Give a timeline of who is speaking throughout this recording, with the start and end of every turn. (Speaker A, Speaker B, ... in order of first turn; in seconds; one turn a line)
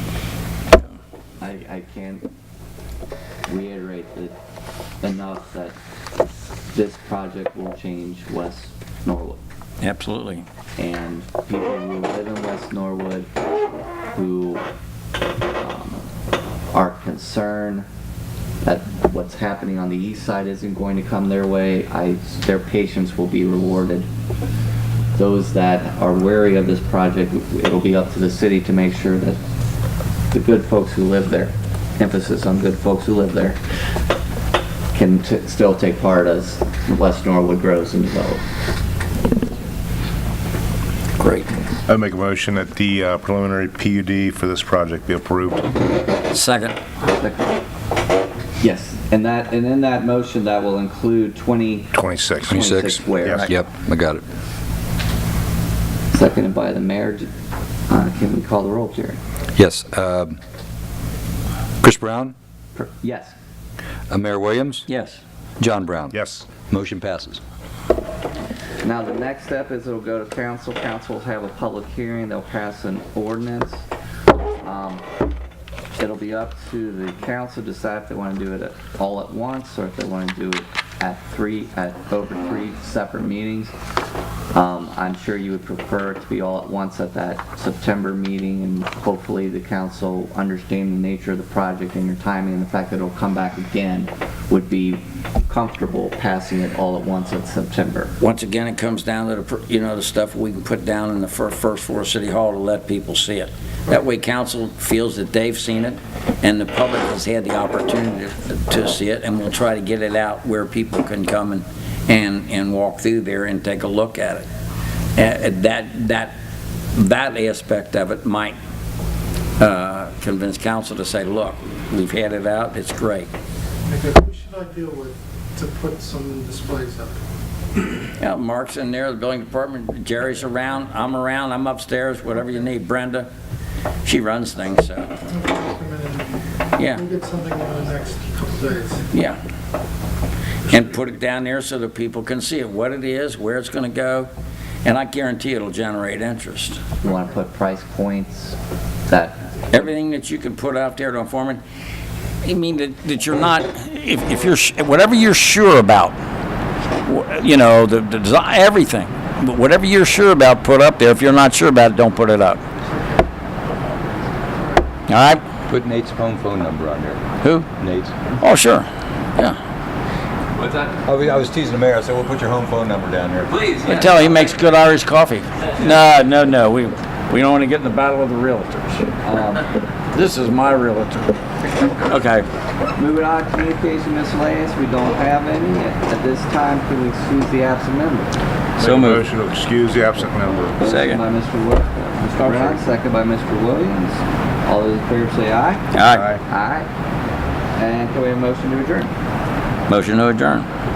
Speaker A: 1.4-2.3
Speaker A: 3.5-4.3
Speaker A: 5.0-5.8
Speaker A: 6.7-9.4
Speaker B: 9.8-10.5
Speaker A: 10.8-13.3
Speaker A: 14.1-14.7
Speaker A: 15.6-16.1
Speaker A: 16.7-17.9
Speaker A: 18.6-24.1
Speaker A: 25.2-29.4
Speaker A: 30.3-33.6
Speaker A: 34.9-38.4
Speaker A: 41.2-41.7
Speaker C: 41.9-45.7
Speaker B: 46.3-46.8
Speaker A: 47.0-47.6
Speaker A: 48.6-51.9
Speaker C: 51.9-52.6
Speaker A: 52.5-53.5
Speaker D: 52.5-54.2
Speaker C: 53.2-53.5
Speaker A: 56.1-57.3
Speaker A: 57.9-59.2
Speaker D: 59.6-60.4
Speaker D: 61.8-62.4
Speaker A: 62.8-63.4
Speaker D: 64.1-64.9
Speaker B: 64.9-65.2
Speaker D: 65.6-67.4
Speaker C: 66.1-66.5
Speaker A: 68.8-73.8
Speaker A: 74.6-75.0
Speaker A: 75.9-83.7
Speaker A: 84.5-98.1
Speaker B: 98.2-114.5
Speaker B: 115.2-116.3
Speaker B: 116.9-118.6
Speaker B: 119.6-123.3
Speaker E: 123.8-127.2
Speaker B: 128.2-133.3
Speaker B: 134.1-135.2
Speaker E: 135.3-136.3
Speaker B: 136.8-137.0
Speaker E: 136.9-139.1
Speaker B: 139.1-139.4
Speaker B: 140.7-144.3
Speaker B: 144.8-146.8
Speaker A: 147.0-148.6
Speaker A: 149.1-149.4
Speaker B: 149.7-151.6
Speaker B: 152.4-156.2
Speaker B: 157.0-162.6
Speaker E: 162.8-163.2
Speaker E: 164.6-164.8
Speaker B: 165.1-165.4
Speaker D: 165.7-167.2
Speaker B: 167.4-167.7
Speaker D: 167.8-168.1
Speaker B: 168.4-169.6
Speaker D: 170.9-173.6
Speaker B: 173.8-179.1
Speaker A: 179.2-179.7
Speaker B: 180.1-181.4
Speaker B: 182.0-182.5
Speaker A: 183.0-188.3
Speaker B: 188.8-189.3
Speaker C: 188.8-190.8
Speaker A: 190.8-196.9
Speaker B: 190.8-191.2
Speaker B: 192.3-192.8
Speaker B: 195.9-196.3
Speaker C: 196.1-196.4
Speaker A: 197.8-199.1
Speaker B: 199.9-200.7